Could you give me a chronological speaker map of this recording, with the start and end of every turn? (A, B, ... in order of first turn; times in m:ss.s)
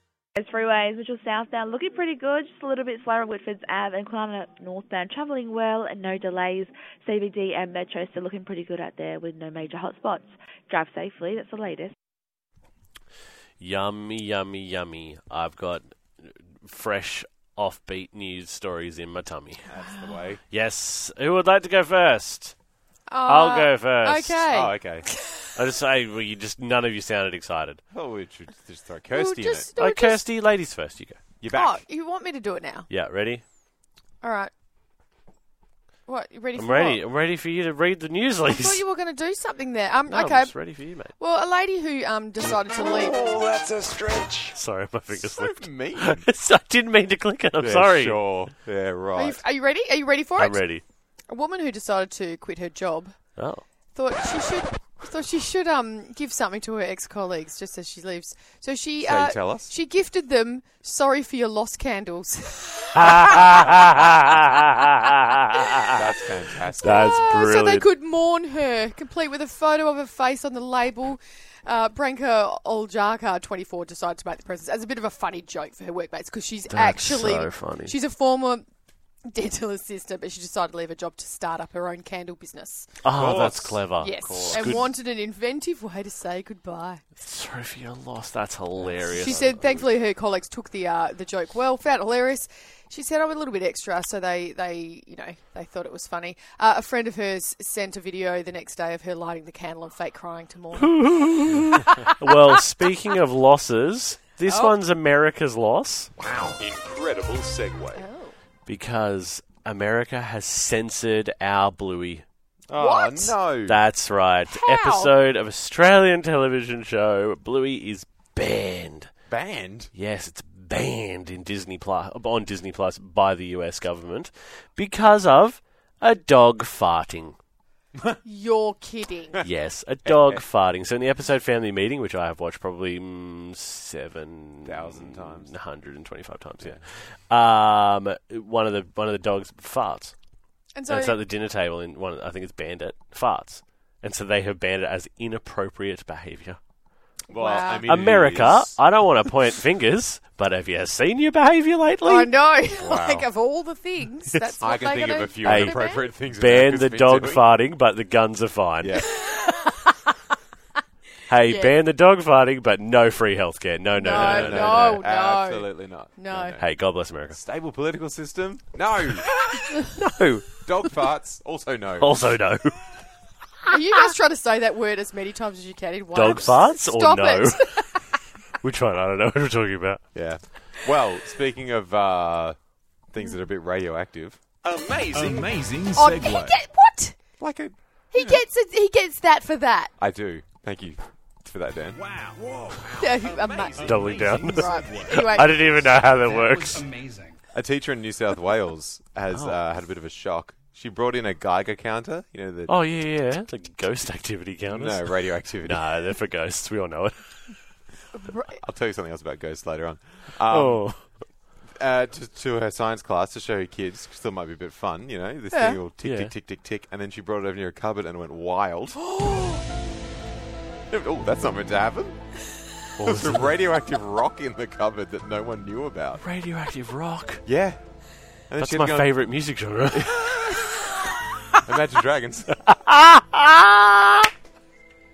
0:00.4-0:11.9 A
0:13.6-0:19.7 B
0:19.7-0:20.4 C
0:20.5-0:22.5 B
0:23.1-0:25.5 D
0:23.3-0:24.5 B
0:24.5-0:25.1 C
0:25.6-0:27.8 B
0:27.9-0:29.7 C
0:29.1-0:30.2 D
0:29.8-0:31.2 B
0:31.4-0:31.8 C
0:31.5-0:32.9 D
0:32.9-0:33.4 B
0:34.2-0:34.5 D
0:36.1-0:37.0 D
0:36.6-0:38.8 B
0:38.4-0:40.6 D
0:40.1-0:41.1 B
0:41.1-0:43.3 D
0:42.6-0:44.6 C
0:44.5-0:48.2 B
0:45.1-0:46.3 C
0:47.6-0:49.4 C
0:49.2-0:50.6 D
0:50.4-0:50.8 B
0:51.3-0:53.2 D
0:53.4-0:53.6 B
0:54.0-1:03.7 D
0:59.0-0:59.7 C
1:03.0-1:06.0 B
1:05.9-1:07.1 C
1:06.8-1:18.6 D
1:06.8-1:07.9 B
1:16.7-1:18.0 B
1:19.3-1:23.0 D
1:23.0-1:24.9 B
1:23.1-1:24.8 C
1:24.0-1:27.0 D
1:27.2-1:29.9 B
1:29.0-1:42.1 D
1:40.7-1:46.1 B
1:44.5-1:44.8 D
1:46.2-1:48.0 C
1:48.0-1:48.3 D
1:48.7-1:52.2 B
1:52.7-1:53.8 C
1:52.8-1:53.4 D
1:53.7-1:59.1 B
1:54.5-1:55.1 D
1:59.3-1:59.9 C
1:59.9-2:07.4 B
2:08.2-2:09.4 D
2:09.4-2:20.1 B
2:10.1-2:10.4 C
2:14.6-2:15.5 C
2:20.8-2:21.2 D
2:20.9-2:26.6 B
2:27.3-2:28.8 C
2:27.3-2:27.8 D
2:27.8-2:32.3 B
2:32.0-2:36.1 D
2:32.8-2:33.3 C
2:34.6-2:37.4 C
2:35.4-2:39.1 B
2:38.8-2:39.2 C
2:39.1-2:40.0 D
2:41.3-2:45.0 B
2:41.4-2:41.8 D
2:43.9-2:46.6 D
2:44.0-2:46.6 C
2:46.6-2:47.4 B
2:47.3-2:52.3 C
2:52.0-2:52.8 B
2:53.7-2:58.0 D
2:56.1-2:57.9 B
2:58.6-3:00.0 B
3:00.1-3:02.6 C
3:03.1-3:05.6 C
3:05.1-3:06.6 E
3:06.0-3:07.2 D
3:07.4-3:08.4 C
3:08.1-3:09.9 D
3:10.0-3:12.0 C
3:12.0-3:17.4 E
3:13.0-3:14.0 D
3:13.8-3:16.9 B
3:14.5-3:15.6 D
3:17.5-3:22.8 C
3:19.3-3:19.6 B
3:22.7-3:27.5 B
3:24.7-3:25.8 C
3:28.2-3:28.6 D
3:28.6-3:30.9 C
3:30.5-3:31.1 B
3:31.8-3:39.0 C
3:35.5-3:35.8 D
3:36.0-3:36.3 B
3:39.2-3:39.6 D
3:40.9-3:42.2 C
3:43.0-3:43.6 B
3:43.0-3:46.2 C
3:46.2-3:47.4 B
3:47.4-3:47.8 C
3:48.5-3:49.2 C
3:48.6-3:51.1 B
3:51.6-3:52.5 C
3:52.7-3:54.3 B